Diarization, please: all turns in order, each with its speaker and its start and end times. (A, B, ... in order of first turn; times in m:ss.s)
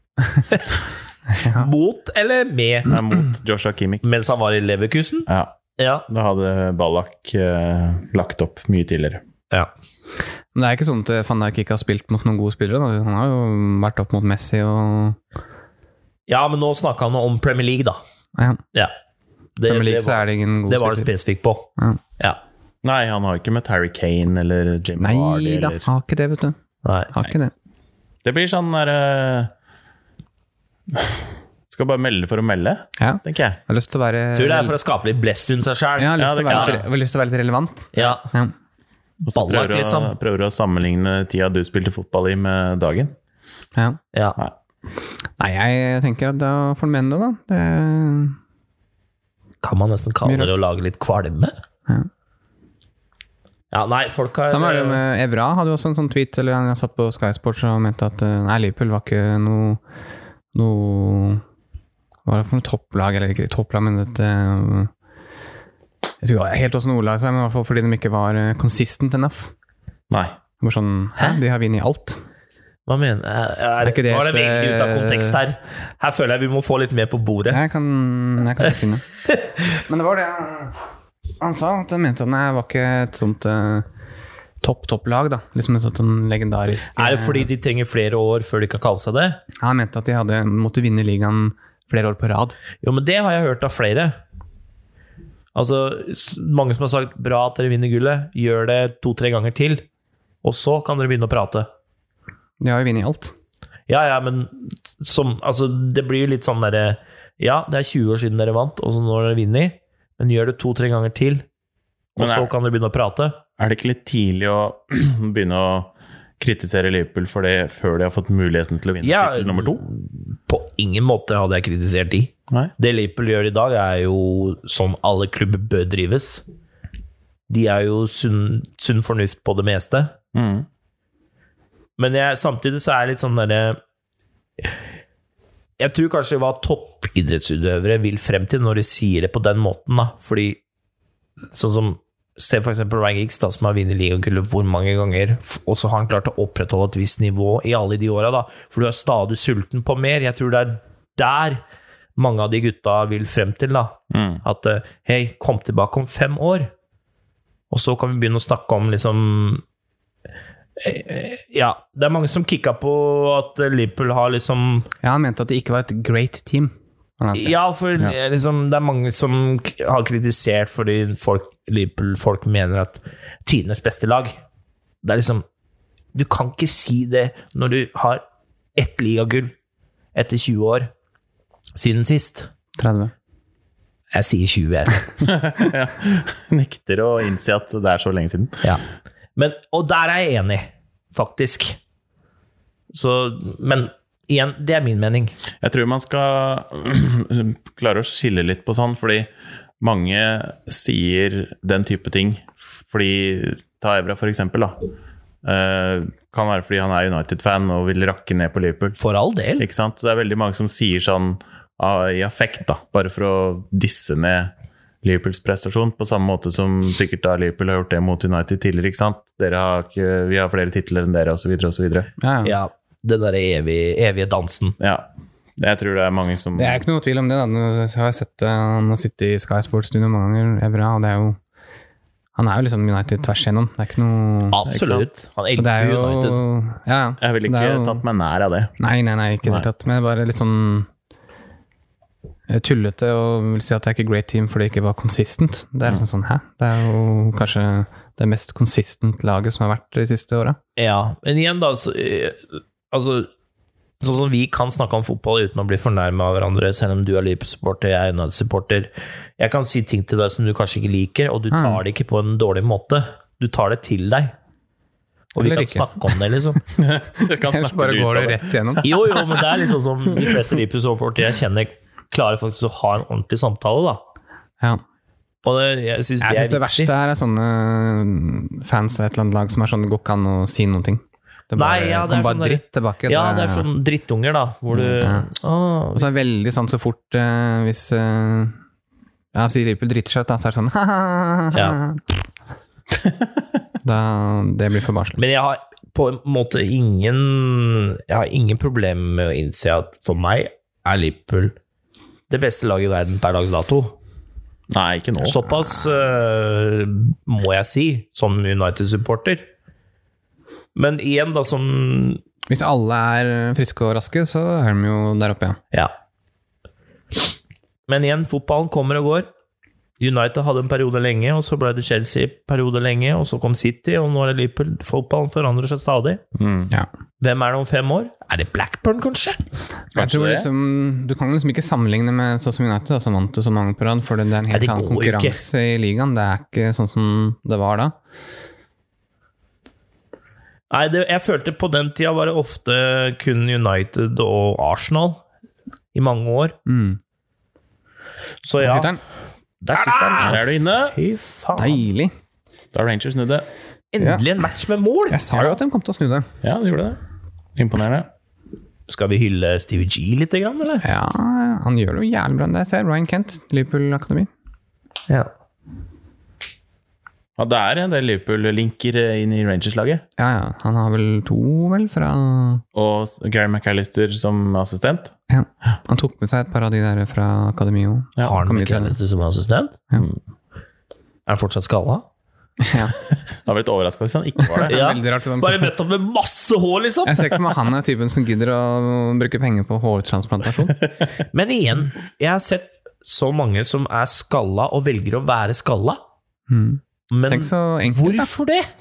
0:01.3-0:01.7 A
0:01.4-0:02.9 B
0:02.9-0:04.0 C
0:04.0-0:05.3 B
0:05.3-0:05.6 C
0:05.8-0:06.1 B
0:06.1-0:09.2 C
0:10.5-0:15.2 A
0:16.3-0:18.0 B
0:18.4-0:18.6 A
0:19.6-0:21.7 B
0:19.7-0:21.1 A
0:22.8-0:25.9 C
0:25.0-0:26.6 A
0:26.8-0:27.1 B
0:27.1-0:27.5 A
0:28.2-0:29.5 C
0:31.7-0:33.6 C
0:33.0-0:34.8 A
0:34.3-0:36.8 B
0:36.0-0:38.5 A
0:36.2-0:36.8 C
0:37.9-0:38.3 B
0:39.2-0:43.1 C
0:39.3-0:40.1 B
0:43.8-0:44.0 A
0:45.4-0:48.4 A
0:49.6-0:51.5 B
0:50.2-0:50.5 A
0:53.7-0:55.0 B
0:54.5-0:59.8 A
1:00.5-1:01.4 A
1:02.2-1:04.9 A
1:06.2-1:09.5 A
1:10.1-1:10.4 C
1:10.6-1:12.2 A
1:12.9-1:17.6 B
1:13.8-1:15.4 A
1:17.5-1:19.1 A
1:19.2-1:19.6 B
1:19.8-1:20.8 A
1:21.4-1:23.9 A
1:24.6-1:27.5 A
1:27.0-1:29.4 B
1:29.6-1:32.6 A
1:32.8-1:34.2 B
1:35.5-1:39.9 B
1:40.4-1:41.7 B
1:42.6-1:43.3 A
1:43.9-1:51.5 B
1:52.2-1:53.4 B
1:52.2-1:52.5 C
1:53.6-1:59.8 C
1:59.0-2:06.4 B
2:07.5-2:10.2 B
2:10.4-2:10.7 C
2:12.0-2:13.8 B
2:15.8-2:20.6 B
2:21.5-2:31.6 B
2:32.2-2:36.7 B
2:34.1-2:34.4 C
2:37.7-2:39.6 B
2:40.8-2:44.9 B
2:45.0-2:47.6 A
2:47.3-2:54.4 B
2:55.0-2:55.4 B
2:56.2-2:58.2 B
2:58.8-2:59.5 B
3:00.2-3:00.9 B
3:01.8-3:02.5 B
3:02.8-3:03.1 A
3:04.1-3:05.2 B
3:05.2-3:08.6 C
3:09.4-3:11.8 B
3:12.9-3:15.4 B
3:15.6-3:19.3 C
3:19.8-3:24.8 C
3:25.4-3:29.0 C
3:29.0-3:29.7 B
3:29.6-3:34.5 C
3:35.0-3:42.1 C
3:42.2-3:42.5 A
3:42.4-3:44.8 B
3:44.8-3:45.1 C
3:45.6-3:46.8 C
3:46.6-3:51.4 A
3:52.4-3:54.6 A
3:54.5-3:56.4 B
3:54.7-3:55.1 C
3:55.5-3:58.0 A
3:57.2-3:58.7 C
3:58.8-4:00.9 A
4:02.5-4:10.6 A
4:10.8-4:13.3 B
4:14.0-4:24.3 B
4:21.5-4:21.8 A
4:25.3-4:26.6 B
4:25.4-4:26.2 A
4:26.8-4:29.2 C
4:27.2-4:29.2 A
4:28.8-4:34.0 B
4:35.4-4:36.9 B
4:36.2-4:43.7 A
4:41.6-4:46.1 B
4:44.8-4:45.3 A
4:46.0-4:48.6 A
4:49.3-4:52.1 A
4:51.5-4:51.8 B
4:53.8-4:55.2 A
4:55.2-5:01.6 B
5:02.3-5:04.0 B
5:04.7-5:05.4 C
5:05.2-5:09.4 B
5:10.8-5:12.2 B
5:12.5-5:15.6 A
5:17.9-5:19.3 B
5:20.0-5:26.2 B
5:26.4-5:26.7 C
5:27.2-5:29.4 B
5:30.0-5:30.5 C
5:30.0-5:37.9 A
5:34.5-5:35.4 B
5:40.7-5:45.2 B
5:45.9-5:46.6 B
5:46.7-5:47.0 A
5:48.4-5:49.0 B
5:48.6-5:49.0 A
5:49.6-5:51.8 B
5:49.9-5:50.4 A
5:50.2-5:51.0 C
5:51.6-5:52.1 A
5:52.7-5:53.5 C
5:53.9-5:55.6 B
5:54.0-5:54.3 A
5:55.1-5:56.3 A
5:56.4-5:57.0 C
5:57.6-5:58.1 C
5:58.9-6:00.8 B
6:00.8-6:04.3 A
6:07.4-6:10.0 C
6:10.2-6:12.6 A
6:12.8-6:15.2 C
6:15.3-6:19.0 A
6:18.2-6:19.8 B
6:21.3-6:22.0 B
6:22.6-6:22.9 A
6:23.4-6:24.8 C
6:24.4-6:25.7 A
6:24.7-6:27.4 B
6:27.1-6:30.8 A
6:31.3-6:36.0 B
6:36.5-6:38.3 A
6:37.1-6:38.7 B